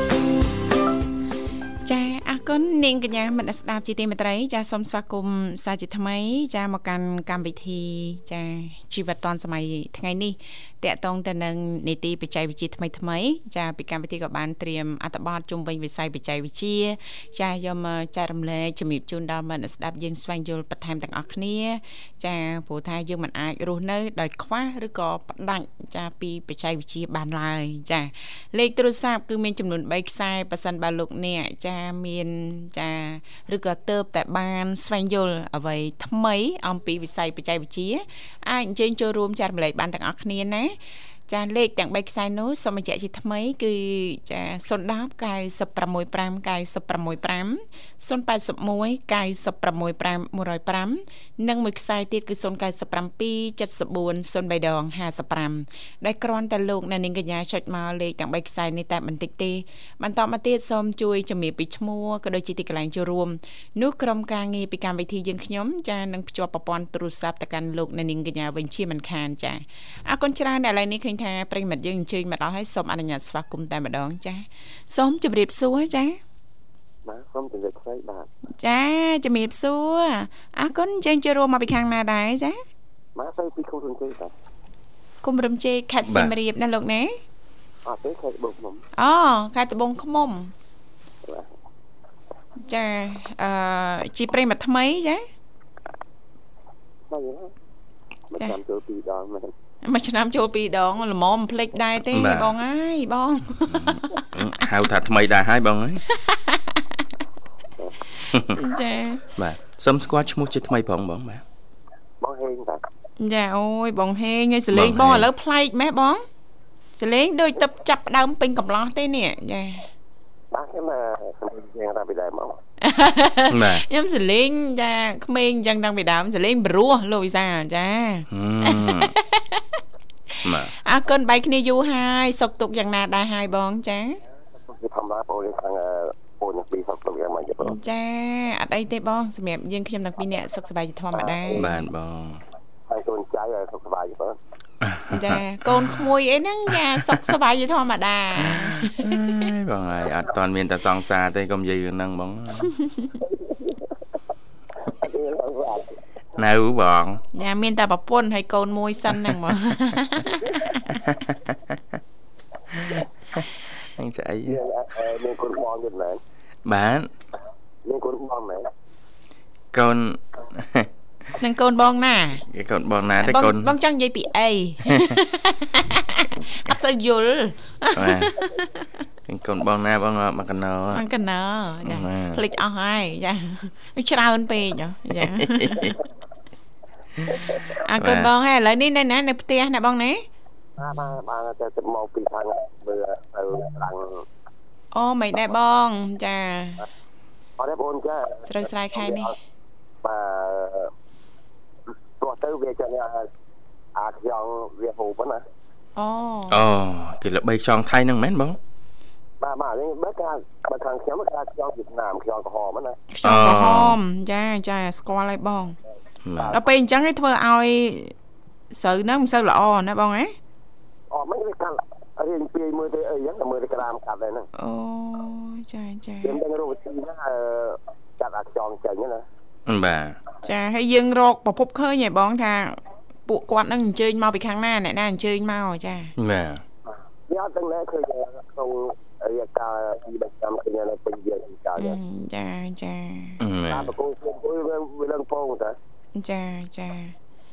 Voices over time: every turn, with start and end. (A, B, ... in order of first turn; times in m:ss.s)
0:01.8-0:40.8 A
0:41.3-1:16.2 A
1:17.0-1:18.3 B
1:18.6-1:22.6 A
1:23.2-1:24.3 B
1:25.2-1:27.2 A
1:26.0-1:26.3 C
1:27.8-1:28.8 B
1:29.0-1:30.5 A
1:32.6-1:35.3 A
1:37.1-1:37.5 B
1:38.3-1:39.5 B
1:39.8-1:44.2 A
1:42.1-1:42.6 C
1:43.7-1:46.0 C
1:46.0-1:47.0 A
1:48.3-1:49.2 A
1:49.4-1:51.4 C
1:52.2-1:52.8 B
1:53.2-1:56.2 A
1:54.7-1:55.3 C
1:56.9-1:59.9 A
2:00.5-2:02.6 B
2:02.8-2:09.6 A
2:03.5-2:03.8 C
2:08.3-2:09.1 C
2:10.4-2:10.7 C
2:10.4-2:14.2 A
2:14.7-2:17.8 B
2:17.6-2:21.7 A
2:21.2-2:21.7 B
2:21.5-2:22.4 C
2:22.9-2:24.4 B
2:24.8-2:26.0 C
2:25.1-2:29.3 A
2:26.7-2:27.3 C
2:28.4-2:32.7 C
2:32.7-2:33.1 A
2:33.2-2:33.8 B
2:34.8-2:36.0 B
2:36.4-2:37.2 C
2:37.3-2:40.6 A
2:40.8-2:41.8 C
2:42.7-2:44.6 C
2:44.5-2:46.2 B
2:46.6-2:47.1 C
2:47.8-2:48.7 B
2:49.7-2:50.9 C
2:51.4-2:52.4 A
2:52.5-2:53.7 C
2:53.2-2:58.9 A
2:54.8-2:55.2 C
2:58.0-2:58.4 C
2:59.3-3:01.0 C
3:00.9-3:05.9 A
3:01.8-3:02.4 C
3:05.1-3:05.9 C
3:07.7-3:10.2 A
3:08.0-3:08.3 C
3:10.8-3:14.2 B
3:14.9-3:16.8 A
3:17.6-3:19.3 B
3:18.4-3:19.4 A
3:20.0-3:20.9 B
3:22.2-3:23.3 B
3:23.9-3:25.4 B
3:26.0-3:26.6 A
3:26.5-3:28.6 C
3:29.4-3:33.0 B
3:33.1-3:35.8 A
3:33.2-3:34.0 C
3:36.2-3:36.6 C
3:36.4-3:36.6 B
3:36.5-3:38.1 A
3:38.7-3:40.4 A
3:41.1-3:44.5 B
3:44.6-3:46.4 A
3:46.2-3:49.2 B
3:49.7-3:50.2 C
3:50.4-3:56.1 A
3:56.2-3:56.6 C
3:57.3-4:02.0 B
4:01.8-4:03.4 A
4:03.4-4:03.9 C
4:03.7-4:05.8 B
4:06.2-4:07.2 A